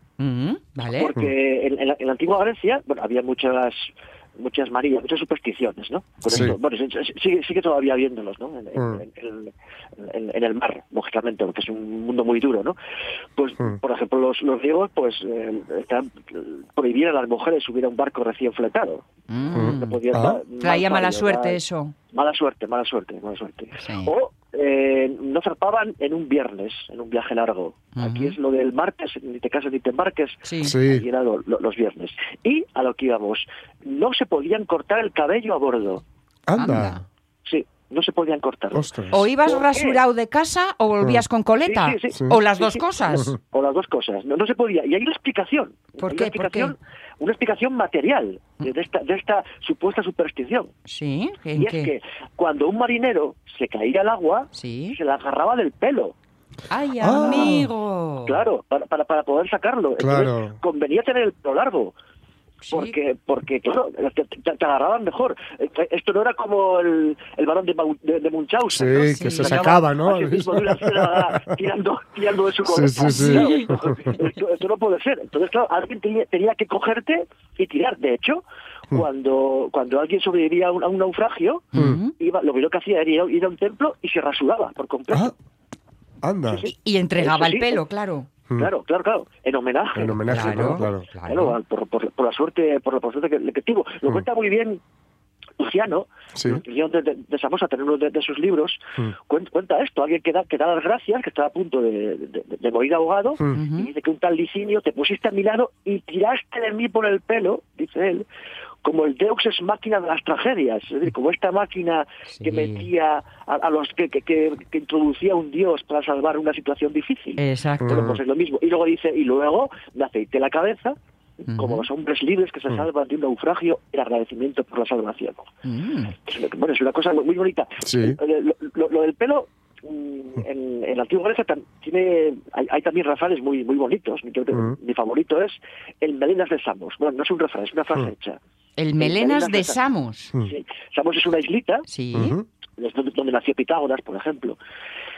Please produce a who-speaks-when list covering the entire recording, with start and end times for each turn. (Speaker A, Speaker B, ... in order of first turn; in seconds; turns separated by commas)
Speaker A: 0.2-1.1, Speaker B: 1.0-12.8, Speaker C: 6.3-6.6, Speaker C: 8.8-9.0, Speaker B: 13.4-21.6, Speaker A: 19.3-20.0, Speaker C: 19.5-20.4, Speaker A: 20.6-21.9, Speaker B: 22.1-36.0, Speaker A: 23.8-24.1, Speaker A: 27.9-28.3, Speaker A: 30.4-30.7, Speaker C: 30.6-31.1, Speaker C: 36.5-37.0, Speaker A: 36.5-37.0, Speaker B: 37.5-38.9, Speaker C: 38.7-39.2, Speaker A: 39.1-43.3, Speaker B: 39.5-40.0, Speaker B: 41.6-50.7, Speaker C: 42.1-42.4, Speaker A: 46.0-46.7, Speaker A: 50.9-51.9, Speaker B: 51.6-56.1, Speaker A: 54.5-55.0, Speaker A: 56.7-58.4, Speaker C: 57.0-57.6, Speaker B: 57.1-57.6, Speaker B: 58.2-61.9, Speaker C: 60.0-60.6, Speaker A: 62.6-62.9, Speaker B: 62.7-85.3, Speaker C: 68.7-71.5, Speaker A: 68.9-69.6, Speaker C: 72.7-73.9, Speaker A: 73.0-73.7, Speaker A: 81.7-82.1, Speaker C: 81.7-82.0, Speaker C: 86.2-86.7, Speaker B: 86.5-87.8, Speaker A: 86.6-88.3, Speaker B: 88.6-94.8, Speaker C: 89.9-91.0, Speaker A: 90.3-91.6, Speaker B: 95.6-108.2, Speaker C: 96.3-96.6, Speaker A: 103.5-103.9, Speaker B: 108.8-125.5, Speaker A: 112.3-112.9, Speaker A: 117.4-118.0, Speaker C: 117.8-118.2, Speaker A: 121.5-121.8, Speaker A: 125.6-126.2, Speaker B: 126.3-138.4, Speaker C: 127.8-128.2, Speaker A: 138.8-140.3, Speaker B: 139.0-139.8, Speaker B: 140.4-141.8, Speaker A: 141.9-142.3, Speaker C: 142.1-142.4, Speaker B: 142.8-144.6